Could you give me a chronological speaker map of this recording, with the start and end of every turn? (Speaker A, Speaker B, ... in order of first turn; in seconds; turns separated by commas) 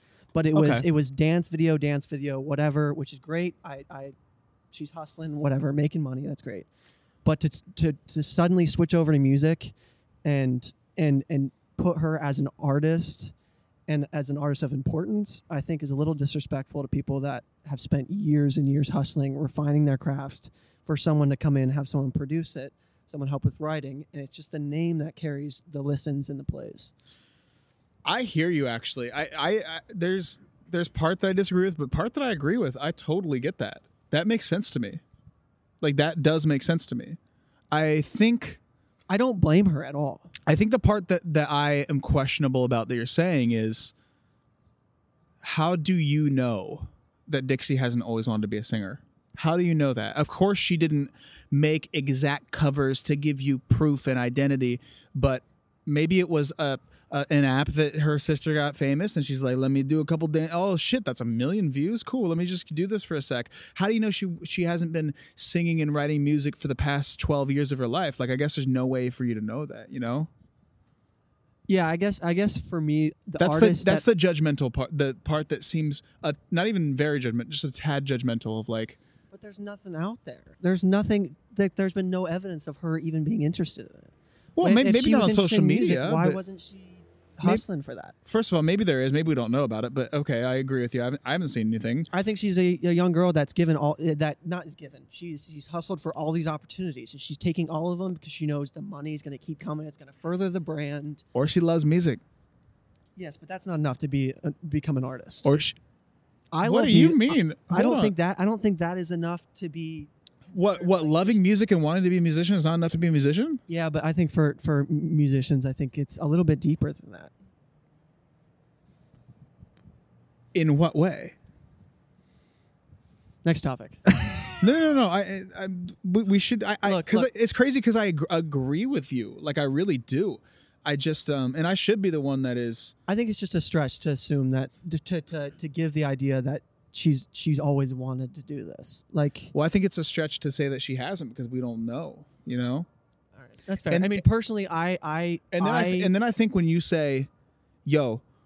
Speaker A: 0.3-4.1, Speaker B: 0.5-0.8, Speaker A: 4.7-6.7, Speaker A: 7.2-9.7, Speaker A: 10.2-13.3, Speaker A: 13.9-26.9, Speaker B: 28.0-35.0, Speaker B: 35.8-37.2, Speaker B: 37.7-38.6, Speaker A: 39.1-40.3, Speaker B: 40.5-43.9, Speaker B: 45.4-70.3, Speaker A: 71.7-74.0, Speaker B: 73.4-79.0, Speaker A: 79.3-88.1, Speaker B: 84.6-86.4, Speaker B: 88.2-92.1, Speaker A: 92.1-101.2, Speaker B: 101.3-102.2, Speaker A: 103.2-105.5, Speaker B: 105.4-105.8, Speaker A: 106.5-111.4, Speaker B: 106.6-108.1, Speaker B: 110.5-113.6, Speaker A: 113.7-117.3, Speaker B: 120.5-121.3, Speaker A: 123.4-124.0, Speaker B: 124.5-132.9, Speaker A: 126.8-127.3, Speaker A: 133.1-139.5, Speaker B: 139.5-142.8, Speaker A: 143.4-146.1, Speaker B: 143.9-144.2, Speaker B: 145.5-147.3, Speaker B: 147.8-148.2